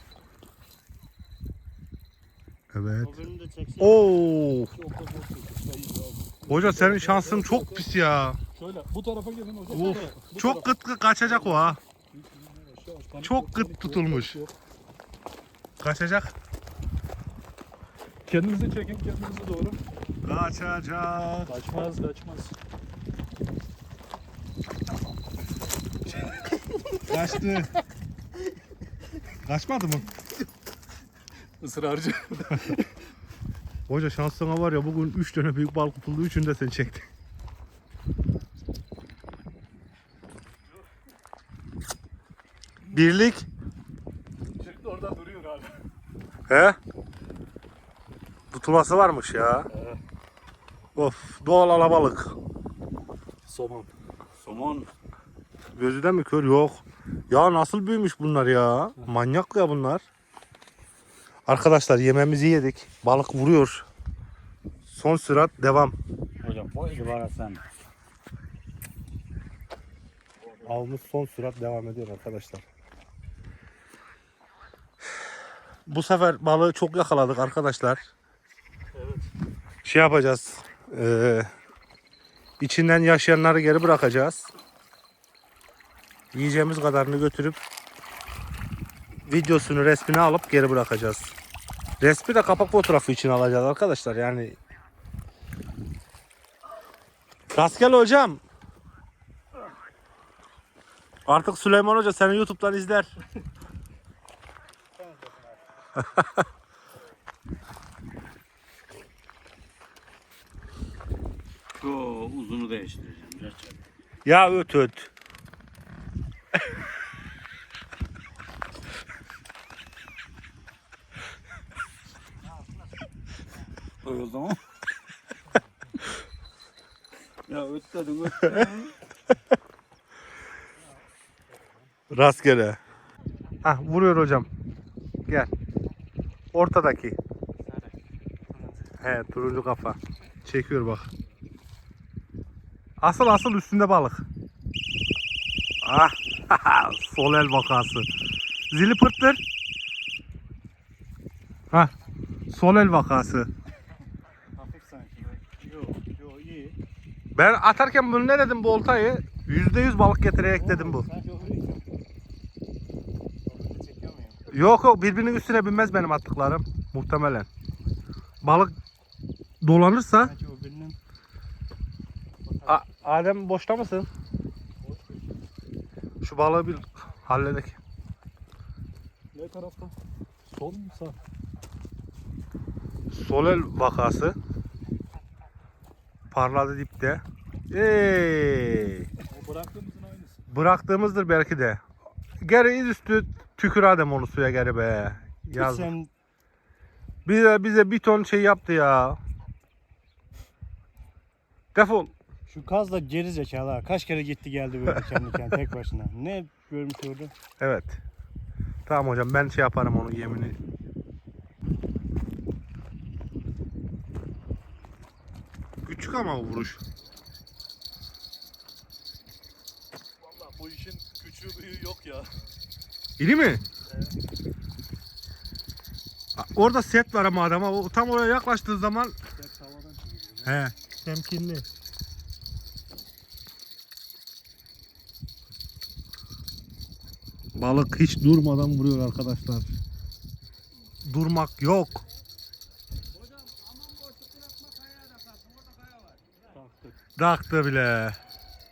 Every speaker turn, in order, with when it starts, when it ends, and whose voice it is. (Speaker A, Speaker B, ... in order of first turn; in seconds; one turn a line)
Speaker A: 2.7-3.2
Speaker B: 3.0-4.1
Speaker A: 3.8-4.7
Speaker C: 4.7-7.9
Speaker A: 6.5-8.4
Speaker C: 8.6-14.5
Speaker A: 9.7-11.8
Speaker A: 13.2-14.4
Speaker A: 15.8-16.4
Speaker C: 18.3-19.8
Speaker A: 20.2-21.6
Speaker C: 21.5-22.6
Speaker A: 27.1-27.7
Speaker A: 29.4-30.1
Speaker C: 31.6-32.8
Speaker A: 33.9-37.1
Speaker A: 42.9-43.5
Speaker C: 44.6-45.8
Speaker A: 46.5-46.8
Speaker A: 48.5-49.7
Speaker C: 49.7-50.0
Speaker A: 51.0-52.4
Speaker C: 53.5-53.9
Speaker D: 54.4-54.9
Speaker A: 55.8-60.0
Speaker A: 61.5-63.9
Speaker A: 64.9-66.0
Speaker D: 66.4-67.6
Speaker A: 70.6-72.6
Speaker A: 75.9-78.1
Speaker B: 78.9-79.3
Speaker A: 79.8-81.5
Speaker A: 82.6-84.5
Speaker A: 86.3-87.6
Speaker A: 89.3-91.3
Speaker A: 92.0-94.6
Speaker A: 97.5-98.4
Speaker A: 101.3-103.1
Speaker B: 105.0-105.6
Speaker D: 111.8-113.8
Speaker A: 114.2-115.1
Speaker D: 124.0-124.6
Speaker D: 127.5-128.9
Speaker A: 132.1-132.8
Speaker A: 133.6-134.5
Speaker A: 136.5-137.2
Speaker B: 137.6-138.0
Speaker B: 138.5-138.9
Speaker A: 139.0-141.1
Speaker A: 143.0-144.3
Speaker A: 145.8-148.1
Speaker A: 148.7-149.4
Speaker A: 152.5-153.5
Speaker B: 154.6-156.8
Speaker A: 157.3-161.1
Speaker B: 160.5-161.9
Speaker B: 163.5-164.4
Speaker A: 164.5-167.5
Speaker A: 168.4-168.7
Speaker A: 169.6-170.3
Speaker B: 170.2-171.0
Speaker B: 172.5-173.0
Speaker A: 172.7-174.1
Speaker C: 174.8-175.3
Speaker A: 176.2-177.8
Speaker C: 179.3-179.9
Speaker C: 180.5-181.2
Speaker A: 183.1-184.4
Speaker A: 186.3-189.1
Speaker C: 189.3-190.5
Speaker A: 190.5-191.8
Speaker A: 192.4-195.9
Speaker B: 195.6-196.1
Speaker A: 197.3-199.2
Speaker A: 201.8-202.1
Speaker B: 202.5-207.3
Speaker A: 207.6-208.0
Speaker A: 208.9-210.6
Speaker A: 215.8-216.8
Speaker C: 220.2-222.3
Speaker A: 223.2-223.6
Speaker B: 223.9-224.1
Speaker A: 226.3-229.1
Speaker B: 229.4-230.6
Speaker A: 230.4-231.7
Speaker A: 237.5-239.7
Speaker A: 241.1-242.0
Speaker D: 243.1-246.4
Speaker B: 246.5-246.9
Speaker A: 247.2-248.2